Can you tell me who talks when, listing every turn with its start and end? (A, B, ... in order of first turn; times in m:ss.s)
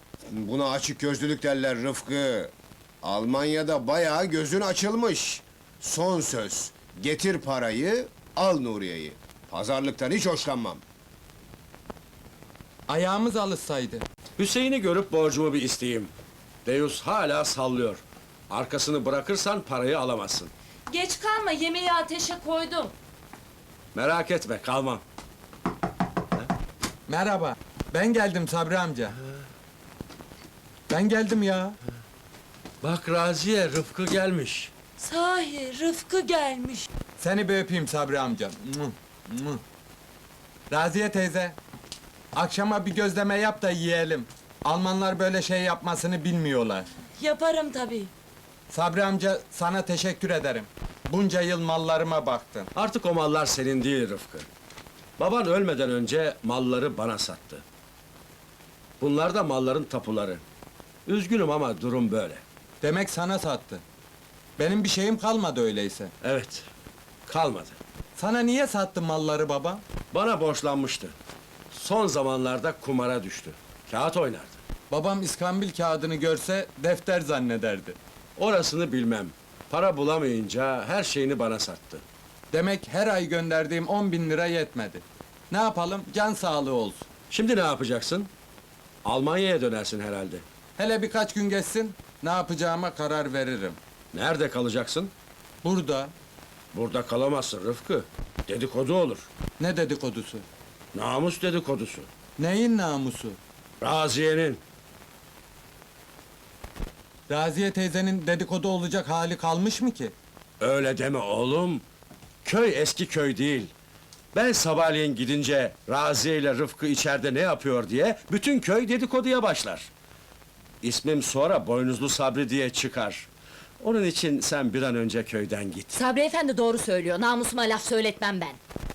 0:00.3-0:10.8 A
0:12.9-0:14.0 B
0:14.4-0:16.1 C
0:16.6-0:20.5 C
0:20.9-0:22.9 D
0:23.9-0:25.0 C
0:27.1-0:29.2 B
0:30.9-0:31.8 B
0:32.8-0:34.7 C
0:35.0-0:36.9 D
0:37.2-0:39.6 B
0:40.7-0:41.6 B
0:42.3-0:46.9 B
0:47.2-0:48.1 D
0:48.7-0:52.7 B
0:52.7-0:54.5 C
0:55.2-0:57.6 C
0:59.0-1:00.4 C
1:01.0-1:02.4 C
1:02.8-1:03.8 B
1:04.6-1:06.1 B
1:06.2-1:06.6 C
1:07.3-1:07.8 C
1:08.2-1:09.8 B
1:10.1-1:11.1 C
1:11.7-1:14.6 C
1:14.9-1:18.0 B
1:18.4-1:22.0 C
1:22.5-1:27.0 B
1:27.3-1:28.3 C
1:29.0-1:30.4 C
1:30.8-1:33.8 B
1:34.1-1:35.1 C
1:35.6-1:36.1 B
1:36.7-1:39.3 C
1:39.6-1:40.4 B
1:40.9-1:42.1 C
1:42.4-1:43.4 B
1:43.8-1:44.6 C
1:47.3-1:50.1 B
1:50.6-1:51.8 C
1:52.4-1:53.7 C
1:54.3-1:59.9 C
2:00.8-2:03.3 C
2:03.8-2:06.0 C
2:05.9-2:08.6 E